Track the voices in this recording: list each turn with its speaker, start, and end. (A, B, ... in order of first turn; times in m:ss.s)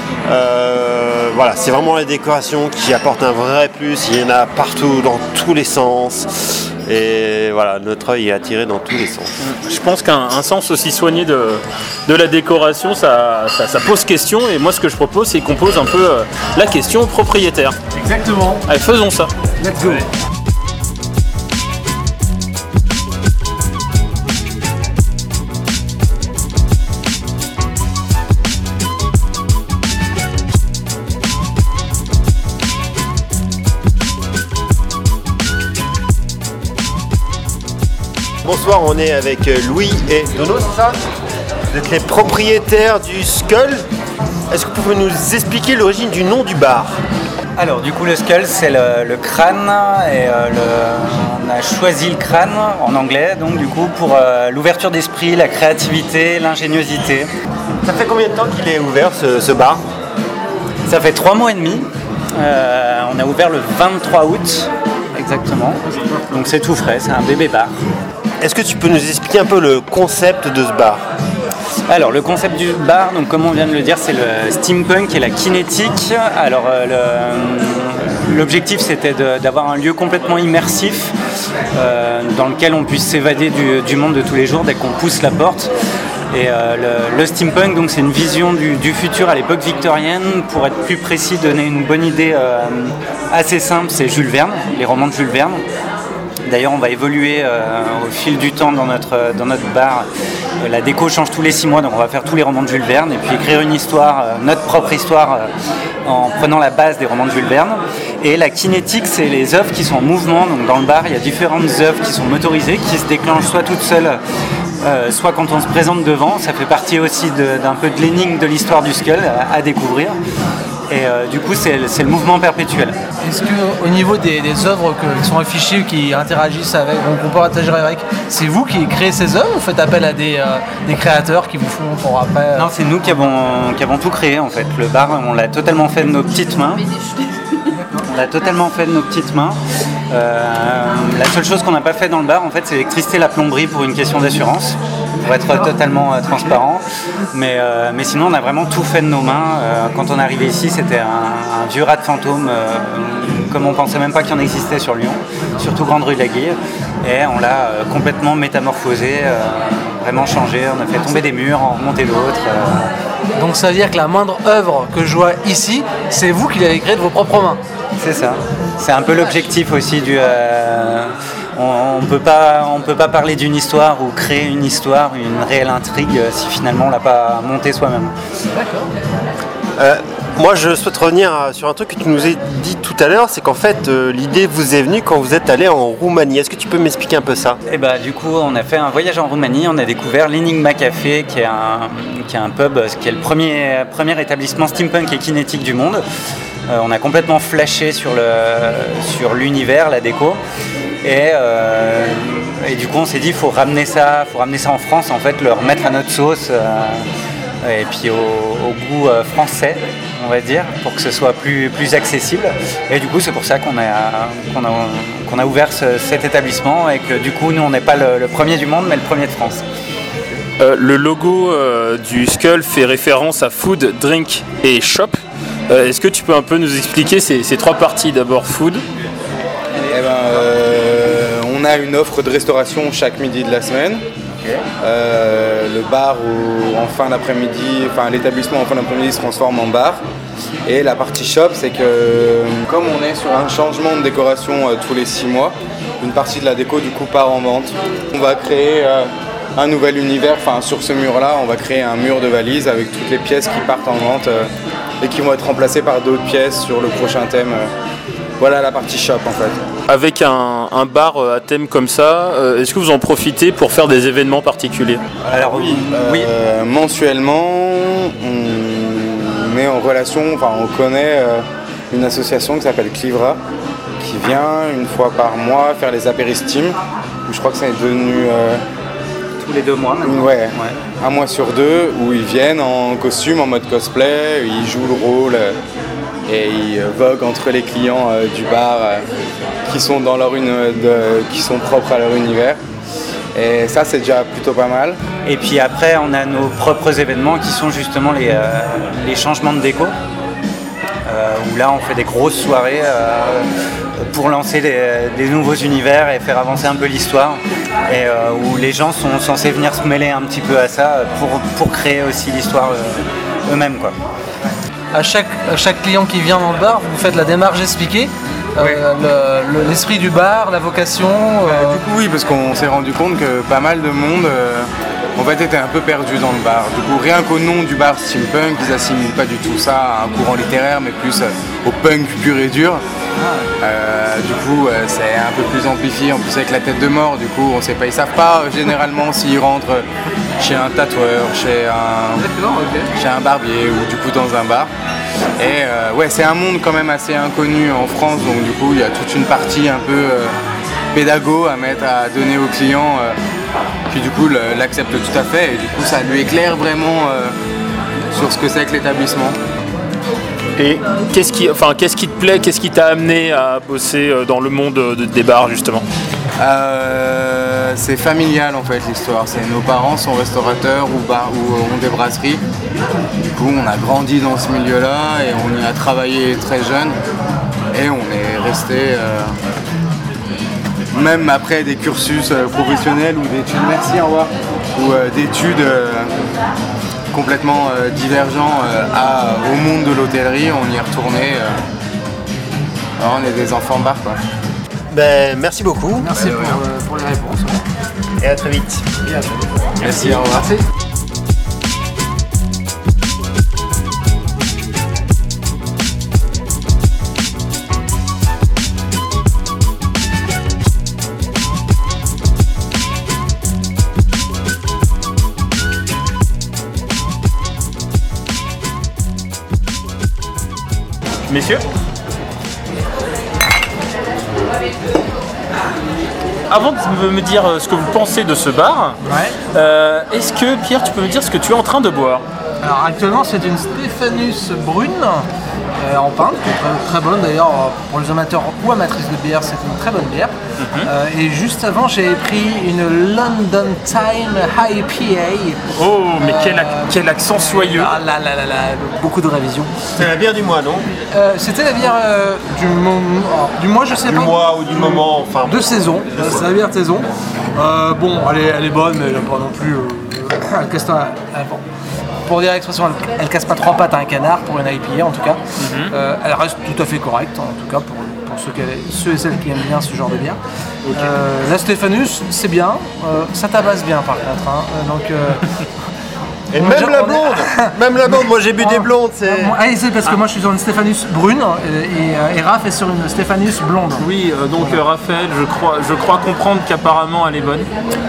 0:00.3-0:09.3 A
0:09.4-0:17.8 B
0:17.9-0:18.6 C
0:18.7-0:19.3 B
0:19.6-0:20.1 C
0:38.4-0:41.0 A
0:41.7-0:43.8 A
0:44.5-0:47.0 A
0:47.6-0:57.3 D
0:57.8-0:59.8 A
1:00.9-1:07.7 D
1:08.4-1:11.0 A
1:11.9-1:21.1 D
1:21.8-1:25.7 D
1:26.3-1:35.6 D
1:36.5-1:40.1 D
1:40.6-1:45.5 D
1:46.0-1:54.2 D
1:54.8-2:00.2 D
2:00.9-2:03.0 D
2:03.2-2:13.3 C
2:12.6-2:16.8 D
2:17.7-2:18.0 C
2:18.1-2:19.6 D
2:20.1-2:42.9 D
2:43.4-2:47.6 C
2:48.0-2:58.1 D
2:58.5-2:58.9 C
2:59.8-3:07.6 A
3:07.7-3:16.0 D
3:16.7-3:20.4 D
3:21.0-3:27.1 D
3:27.6-3:39.6 D
3:40.6-3:48.8 B
3:49.9-3:54.0 E
3:54.8-4:00.0 E
4:00.6-4:14.5 E
4:15.0-4:17.7 E
4:18.4-4:19.6 E
4:19.9-4:25.0 B
4:25.3-4:26.3 D
4:25.6-4:33.4 E
4:34.0-4:38.6 E
4:39.4-4:40.8 D
4:40.0-4:45.6 E
4:46.3-4:49.1 E
4:49.7-4:52.6 E
4:53.4-4:55.0 E
4:55.2-4:59.9 D
5:01.1-5:03.5 D
5:04.0-5:13.9 D
5:14.9-5:21.8 C
5:21.4-5:32.8 E
5:33.2-5:33.5 C
5:33.6-5:39.8 E
5:40.4-5:42.2 E
5:42.2-5:42.9 C
5:42.9-5:44.7 E
5:45.4-5:50.4 E
5:50.9-5:53.2 E
5:53.9-5:57.4 E
5:58.1-5:59.4 E
6:00.6-6:05.8 B
6:06.4-6:12.4 E
6:13.3-6:17.0 E
6:17.7-6:19.3 E
6:20.9-6:26.1 E
6:27.1-6:31.6 E
6:33.0-6:34.2 E
6:34.9-6:36.1 A
6:36.0-6:37.6 C
6:38.2-6:39.0 A
6:39.1-6:40.6 C
6:39.8-6:40.2 A
6:39.8-6:40.5 E
7:01.3-7:01.6 B
7:06.5-7:09.0 B
7:09.0-7:09.4 C
7:09.5-7:12.2 B
7:12.6-7:15.3 C
7:15.8-7:25.6 C
7:20.6-7:20.9 B
7:25.7-7:27.9 B
7:26.2-7:29.8 C
7:29.9-7:30.9 A
7:31.1-7:41.6 C
7:34.0-7:36.5 A
7:42.3-7:50.4 C
7:45.6-7:45.9 B
7:51.0-7:55.4 C
7:56.5-7:59.6 A
7:56.6-8:04.1 C
8:04.0-8:07.7 B